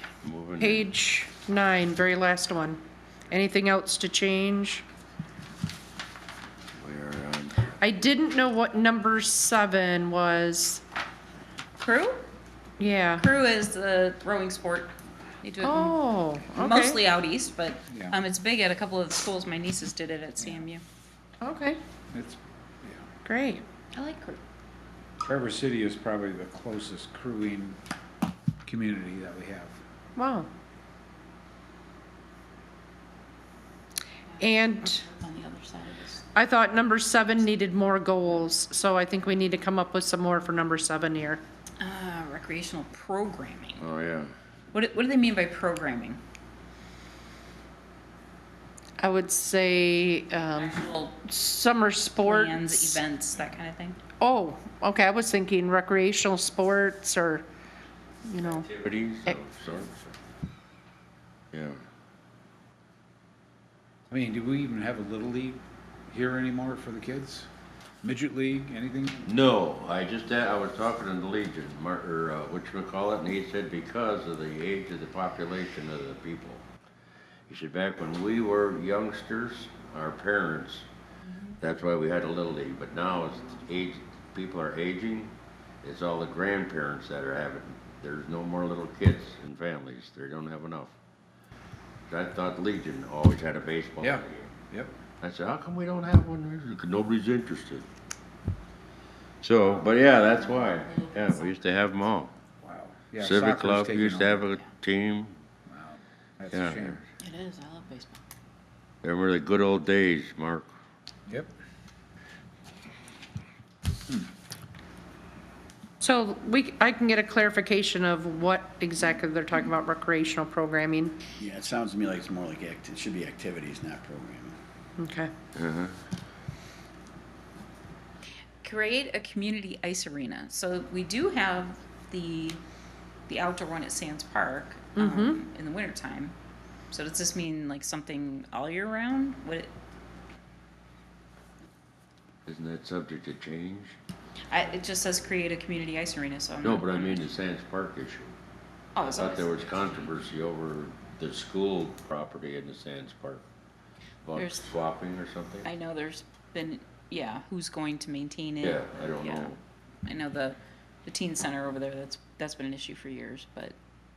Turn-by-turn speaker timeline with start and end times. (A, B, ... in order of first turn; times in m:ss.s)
0:00.2-0:00.9 A
0:00.6-0:04.8 B
0:06.8-0:07.7 A
0:07.8-0:10.8 B
0:11.8-0:12.2 C
0:12.8-0:13.3 B
0:13.2-0:20.8 C
0:15.6-0:17.0 B
0:17.9-0:18.2 D
0:21.4-0:21.8 B
0:22.1-0:23.1 D
0:23.2-0:23.6 B
0:23.9-0:24.4 C
0:25.2-0:27.8 D
0:28.6-0:29.8 D
0:30.2-0:30.5 B
0:34.3-0:36.2 C
0:34.4-0:35.0 B
0:36.3-0:41.4 B
0:41.8-0:43.8 C
0:43.8-0:44.3 A
0:44.7-0:46.2 C
0:49.0-0:53.0 B
0:50.5-0:51.2 C
0:52.2-0:54.0 C
0:54.2-0:57.4 B
0:58.3-0:58.7 B
0:58.4-1:00.1 A
1:01.5-1:01.8 A
1:04.1-1:07.5 D
1:08.0-1:09.3 D
1:09.2-1:16.6 A
1:17.5-1:20.9 A
1:21.6-1:30.9 A
1:32.1-1:34.5 A
1:34.0-1:34.9 D
1:35.2-1:37.8 A
1:39.4-1:42.3 A
1:40.1-1:41.5 C
1:42.6-1:44.4 D
1:43.2-1:45.3 A
1:45.7-1:47.0 D
1:46.5-1:47.0 A
1:47.2-1:48.2 C
1:49.0-1:50.7 A
1:56.0-2:01.2 B
2:01.4-2:04.6 E
2:05.0-2:05.3 B
2:05.5-2:05.9 A
2:08.6-2:12.6 C
2:13.3-2:16.3 C
2:15.0-2:15.4 B
2:16.9-2:19.7 C
2:22.4-2:24.0 A
2:24.5-2:27.2 C
2:26.6-2:28.3 A
2:28.9-2:30.1 C
2:29.0-2:33.4 A
2:34.2-2:35.7 A
2:34.3-2:34.8 C
2:35.6-2:43.8 C
2:38.6-2:39.5 A